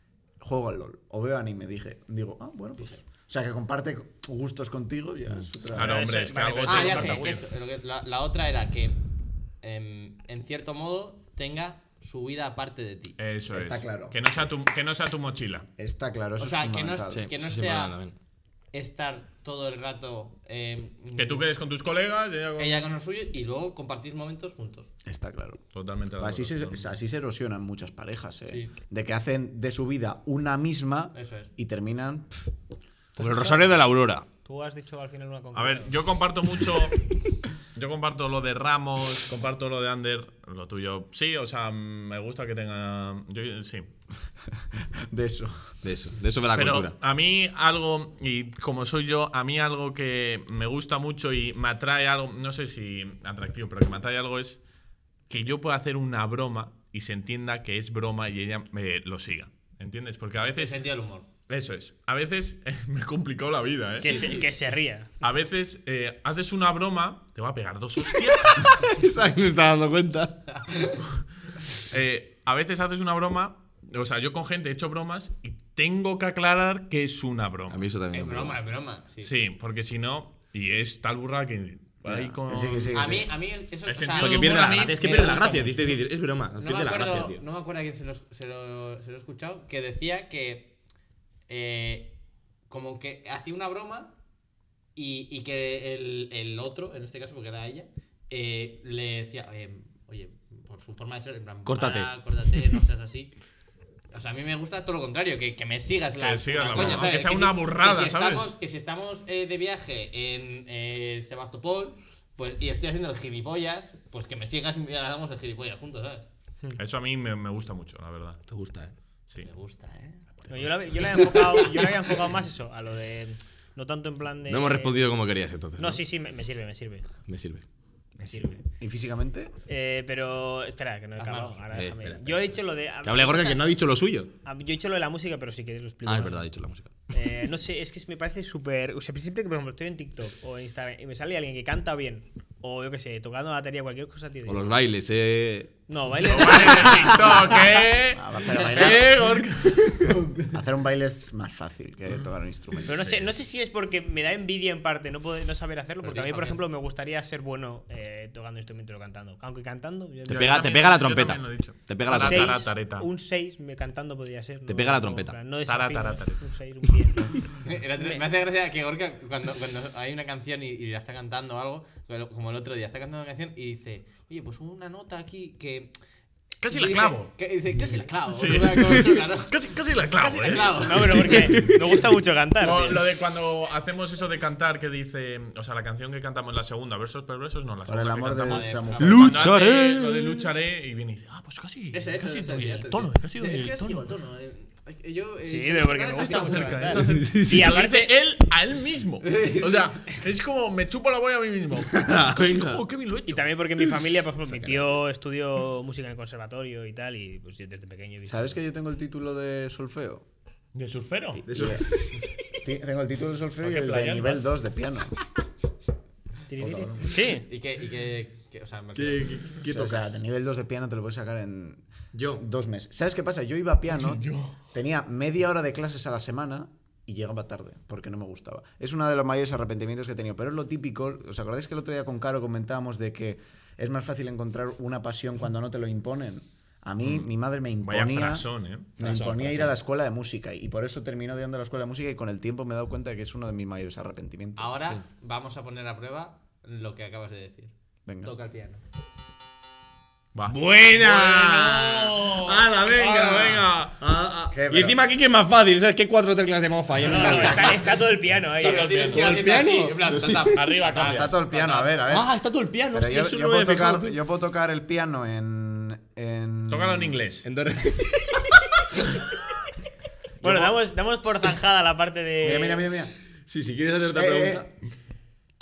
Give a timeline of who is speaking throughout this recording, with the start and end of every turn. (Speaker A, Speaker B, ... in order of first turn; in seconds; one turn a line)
Speaker A: 0.4-6.1
Speaker B: 5.7-7.5
Speaker C: 5.8-7.4
Speaker D: 6.6-9.0
Speaker D: 9.6-13.2
Speaker B: 13.2-15.7
Speaker A: 13.5-14.2
Speaker A: 15.8-17.3
Speaker D: 16.4-18.0
Speaker E: 17.1-18.1
Speaker D: 18.7-21.5
Speaker B: 21.2-22.9
Speaker D: 22.6-24.9
Speaker A: 25.1-25.6
Speaker B: 25.7-26.9
Speaker A: 26.2-32.5
Speaker D: 31.1-31.5
Speaker C: 33.2-33.8
Speaker E: 33.2-34.3
Speaker C: 34.4-36.0
Speaker B: 35.5-37.0
Speaker B: 37.8-43.9
Speaker A: 44.8-45.8
Speaker E: 45.8-47.0
Speaker B: 46.5-54.6
Speaker B: 55.3-60.8
Speaker D: 60.4-61.3
Speaker B: 61.5-64.4
Speaker C: 64.0-65.1
Speaker D: 64.0-64.5
Speaker B: 65.2-68.8
Speaker E: 68.4-70.4
Speaker D: 70.5-71.0
Speaker B: 71.9-77.8
Speaker E: 77.7-78.6
Speaker D: 78.1-79.3
Speaker B: 79.2-83.2
Speaker A: 82.0-83.3
Speaker D: 82.9-85.8
Speaker B: 83.9-85.7
Speaker E: 84.2-87.4
Speaker D: 86.6-90.7
Speaker D: 91.5-92.1
Speaker D: 92.7-94.2
Speaker D: 95.0-103.3
Speaker E: 101.7-102.1
Speaker D: 104.1-116.3
Speaker B: 106.2-108.6
Speaker E: 106.8-107.0
Speaker B: 116.8-118.4
Speaker E: 118.5-118.9
Speaker D: 119.4-120.2
Speaker B: 120.5-120.8
Speaker C: 120.5-125.0
Speaker E: 124.5-126.0
Speaker C: 125.8-127.1
Speaker E: 127.3-127.6
Speaker C: 128.2-128.6
Speaker A: 128.8-129.5
Speaker C: 129.7-133.7
Speaker D: 131.2-131.7
Speaker E: 131.7-132.5
Speaker E: 133.0-134.3
Speaker C: 134.4-136.4
Speaker E: 136.1-136.9
Speaker C: 137.1-144.8
Speaker E: 144.5-145.8
Speaker C: 145.9-147.3
Speaker B: 146.2-149.9
Speaker E: 146.6-147.2
Speaker A: 148.0-149.2
Speaker E: 148.8-150.5
Speaker A: 150.5-153.2
Speaker C: 152.9-160.8
Speaker D: 156.0-156.6
Speaker E: 160.3-162.7
Speaker B: 160.3-163.1
Speaker C: 162.1-168.2
Speaker E: 164.7-165.4
Speaker B: 165.7-166.4
Speaker D: 167.6-175.9
Speaker B: 176.6-177.4
Speaker D: 176.7-179.5
Speaker B: 178.3-181.0
Speaker D: 180.2-181.4
Speaker C: 180.8-183.0
Speaker B: 182.6-194.1
Speaker A: 187.9-189.3
Speaker D: 188.4-189.3
Speaker E: 189.0-190.5
Speaker D: 191.9-197.0
Speaker C: 195.4-198.1
Speaker B: 196.2-203.6
Speaker E: 197.0-197.7
Speaker D: 199.2-199.7
Speaker E: 201.9-202.8
Speaker C: 203.3-208.6
Speaker A: 208.3-210.2
Speaker B: 210.7-211.5
Speaker A: 211.5-211.9
Speaker E: 211.5-212.3
Speaker A: 212.5-215.2
Speaker B: 213.6-214.5
Speaker C: 216.5-217.5
Speaker A: 216.6-217.2
Speaker D: 217.4-219.5
Speaker E: 218.9-220.2
Speaker A: 219.7-244.8
Speaker E: 222.1-222.4
Speaker B: 224.0-224.6
Speaker B: 237.8-238.9
Speaker E: 239.0-239.7
Speaker D: 244.6-248.8
Speaker A: 248.1-248.3
Speaker B: 250.3-254.0
Speaker E: 250.5-257.8
Speaker A: 254.5-255.0
Speaker C: 257.1-258.9
Speaker D: 257.1-257.6
Speaker D: 258.5-262.0
Speaker B: 258.6-259.4
Speaker E: 258.9-260.7
Speaker B: 260.5-261.4
Speaker A: 260.9-262.3
Speaker E: 262.1-264.2
Speaker A: 262.9-267.2
Speaker B: 266.7-267.5
Speaker E: 267.4-269.2
Speaker E: 270.4-270.7
Speaker C: 270.4-272.9
Speaker A: 272.4-273.1
Speaker E: 273.5-274.7
Speaker A: 273.9-274.7